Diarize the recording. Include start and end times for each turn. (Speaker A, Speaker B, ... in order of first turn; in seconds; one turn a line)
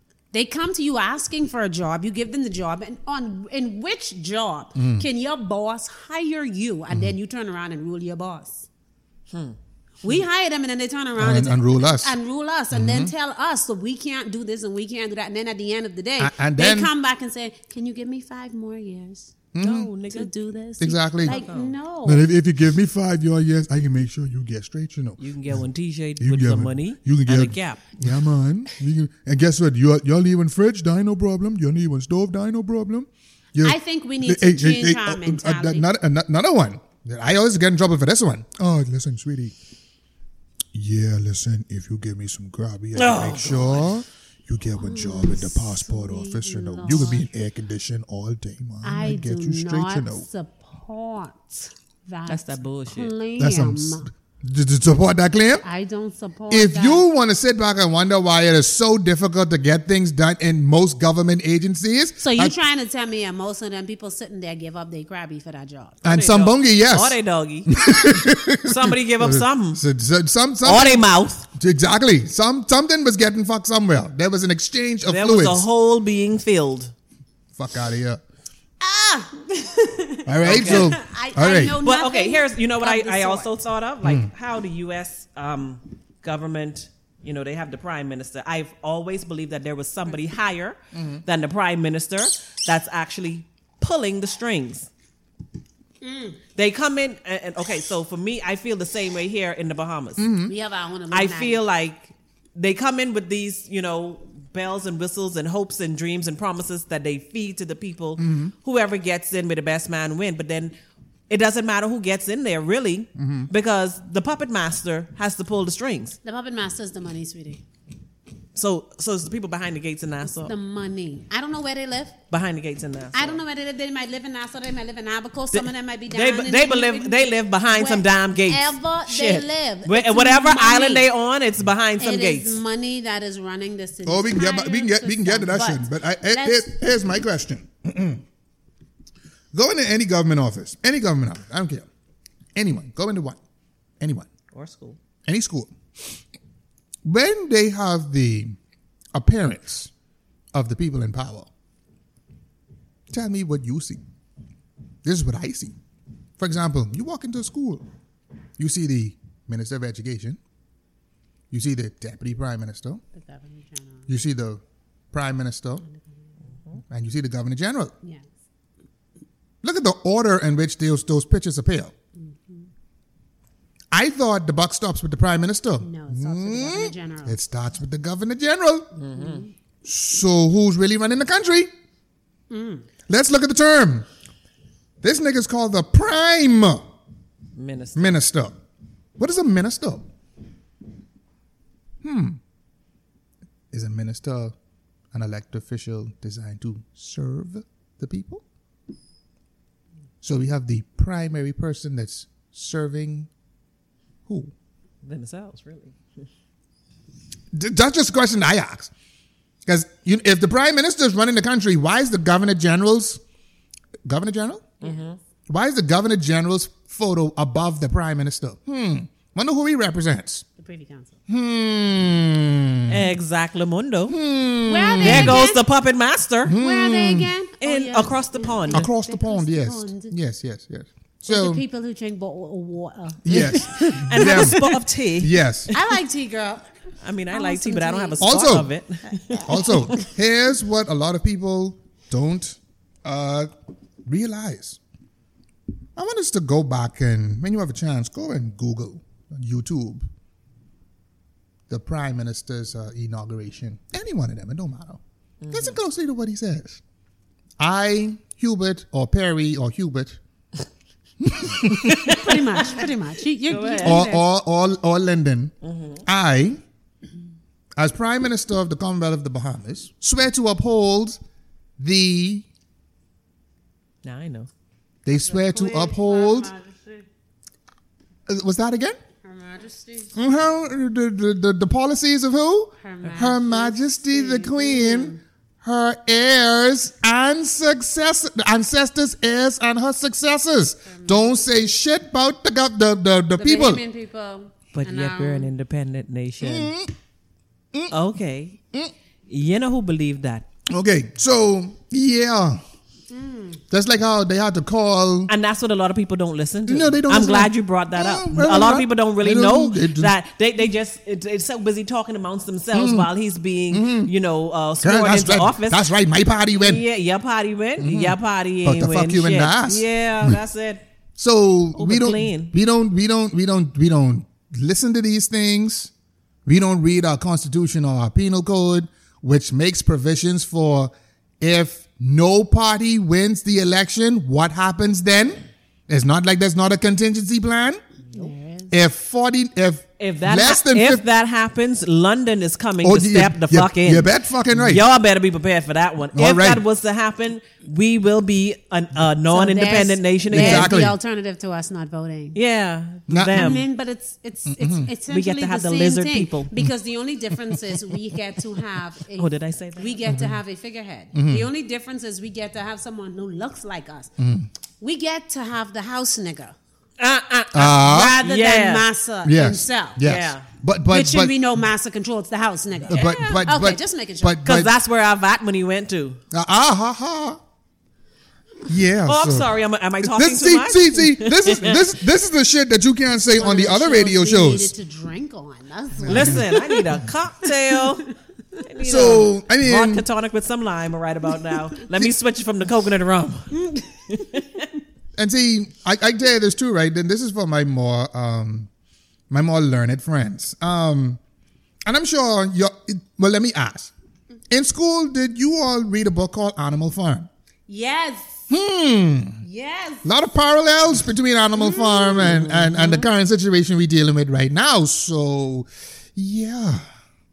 Speaker A: 0.3-8.7
Speaker B: 4.8-5.0
Speaker C: 9.3-9.6
Speaker A: 10.0-19.3
Speaker B: 11.2-12.1
Speaker B: 12.7-13.1
Speaker B: 16.2-16.9
Speaker B: 19.5-19.9
Speaker C: 19.6-20.3
Speaker A: 20.1-22.3
Speaker B: 20.8-21.4
Speaker C: 21.2-21.7
Speaker B: 22.0-25.6
Speaker C: 25.2-27.9
Speaker B: 26.2-39.5
Speaker A: 33.6-35.9
Speaker B: 40.7-50.2
Speaker C: 42.9-44.0
Speaker A: 44.8-47.3
Speaker A: 48.8-54.1
Speaker C: 52.3-53.1
Speaker B: 53.4-55.6
Speaker A: 55.6-57.0
Speaker B: 56.5-62.5
Speaker A: 62.2-66.0
Speaker B: 66.0-75.7
Speaker C: 66.0-69.8
Speaker C: 70.6-71.5
Speaker C: 75.0-76.9
Speaker B: 77.5-78.2
Speaker A: 78.8-83.5
Speaker B: 80.2-81.8
Speaker C: 80.4-80.9
Speaker C: 81.8-94.9
Speaker B: 84.0-84.3
Speaker B: 90.9-91.2
Speaker A: 96.0-96.4
Speaker C: 96.5-100.3
Speaker B: 100.2-100.5
Speaker A: 100.5-101.6
Speaker C: 101.1-110.7
Speaker B: 108.2-108.5
Speaker C: 111.3-116.2
Speaker B: 113.2-113.5
Speaker A: 116.2-117.6
Speaker C: 118.5-120.5
Speaker A: 120.4-122.2
Speaker C: 122.3-123.4
Speaker A: 123.1-131.1
Speaker C: 125.5-132.6
Speaker A: 132.0-136.8
Speaker B: 134.1-138.2
Speaker B: 139.5-141.9
Speaker B: 142.5-143.4
Speaker B: 144.0-144.3
Speaker C: 144.5-145.0
Speaker B: 145.2-145.7
Speaker B: 147.0-148.6
Speaker B: 149.1-149.9
Speaker B: 150.5-151.5
Speaker B: 153.1-154.0
Speaker B: 155.0-155.8
Speaker B: 156.4-157.8
Speaker B: 158.6-160.4
Speaker B: 161.5-163.0
Speaker A: 163.1-164.1
Speaker B: 164.1-164.6
Speaker B: 165.1-165.8
Speaker B: 166.9-167.9
Speaker A: 168.0-168.3
Speaker B: 169.6-171.9
Speaker A: 172.2-172.7
Speaker B: 173.9-178.9
Speaker A: 175.8-177.3
Speaker C: 178.9-179.5
Speaker A: 179.2-179.5
Speaker B: 179.8-181.7
Speaker A: 182.5-182.9
Speaker B: 183.1-184.1
Speaker B: 185.0-186.8
Speaker C: 187.6-188.2
Speaker B: 187.9-188.5
Speaker B: 189.2-190.1
Speaker B: 192.0-192.4
Speaker B: 193.7-194.5
Speaker B: 195.1-198.4
Speaker B: 200.2-203.3
Speaker B: 204.3-204.5
Speaker C: 205.0-205.9
Speaker B: 207.5-208.9
Speaker B: 209.7-213.2
Speaker B: 214.1-214.7
Speaker C: 214.8-215.2
Speaker B: 215.5-220.4
Speaker A: 220.6-221.2
Speaker B: 221.3-223.1
Speaker C: 222.9-224.2
Speaker B: 224.1-225.4
Speaker A: 224.6-225.6
Speaker C: 225.0-226.6
Speaker B: 226.4-227.3
Speaker A: 226.5-230.1
Speaker C: 227.6-228.9
Speaker B: 228.7-231.6
Speaker A: 231.3-234.8
Speaker B: 233.2-234.6
Speaker C: 233.3-235.3
Speaker B: 235.2-235.7
Speaker A: 235.7-236.7
Speaker C: 237.0-240.0
Speaker A: 237.3-238.3
Speaker B: 238.2-238.7
Speaker A: 239.1-240.1
Speaker B: 239.4-243.5
Speaker B: 244.1-244.8
Speaker B: 245.9-250.1
Speaker B: 251.7-256.8
Speaker C: 255.4-255.8
Speaker B: 257.6-260.2
Speaker B: 261.2-262.2
Speaker C: 261.8-262.7
Speaker A: 261.9-264.2
Speaker C: 263.5-264.0
Speaker B: 263.8-265.5
Speaker C: 265.6-266.0
Speaker B: 266.0-266.6
Speaker B: 267.8-271.2
Speaker B: 271.8-272.4
Speaker C: 274.0-274.5
Speaker B: 275.0-276.5
Speaker A: 275.1-277.0
Speaker B: 278.3-279.0
Speaker A: 279.2-280.1
Speaker B: 280.1-293.8
Speaker A: 282.8-285.2
Speaker A: 290.9-291.3
Speaker A: 293.4-295.5
Speaker C: 294.7-296.7
Speaker B: 296.4-296.9
Speaker C: 297.9-298.6
Speaker C: 299.3-300.4
Speaker B: 300.7-302.6
Speaker A: 303.1-303.6
Speaker B: 303.7-305.3
Speaker C: 305.3-315.9
Speaker B: 306.7-310.1
Speaker B: 312.7-313.1
Speaker B: 313.7-314.1
Speaker B: 314.8-316.8
Speaker C: 316.5-320.8
Speaker B: 317.8-320.4
Speaker B: 321.2-325.9
Speaker C: 321.8-322.5
Speaker B: 326.4-337.8
Speaker A: 338.1-338.8
Speaker B: 338.7-341.0
Speaker C: 340.0-350.7
Speaker B: 342.8-344.8
Speaker B: 346.1-346.6
Speaker A: 349.3-352.4
Speaker B: 350.3-350.9
Speaker C: 352.3-353.6
Speaker B: 353.1-353.5
Speaker A: 353.3-364.1
Speaker B: 354.5-354.9
Speaker C: 355.1-356.5
Speaker C: 359.1-360.1
Speaker B: 360.1-360.4
Speaker B: 361.1-361.5
Speaker B: 364.2-364.5
Speaker A: 364.8-366.5
Speaker C: 367.0-368.9
Speaker B: 367.5-368.2
Speaker A: 367.7-370.0
Speaker B: 369.2-371.3
Speaker C: 370.0-370.4
Speaker A: 370.9-374.4
Speaker B: 372.9-374.7
Speaker C: 372.9-373.3
Speaker C: 374.4-376.2
Speaker B: 376.3-377.4
Speaker B: 378.6-379.5
Speaker C: 379.1-381.9
Speaker B: 380.0-384.7
Speaker A: 383.3-386.9
Speaker B: 386.0-386.5
Speaker C: 386.1-393.6
Speaker A: 387.5-387.9
Speaker B: 388.8-390.0
Speaker A: 393.6-394.2
Speaker C: 394.1-394.7
Speaker B: 395.1-398.7
Speaker B: 399.3-401.2
Speaker B: 401.9-403.9
Speaker B: 404.5-407.3
Speaker A: 407.7-408.4
Speaker B: 408.5-409.4
Speaker A: 409.4-410.1
Speaker B: 410.0-416.8
Speaker A: 411.6-413.0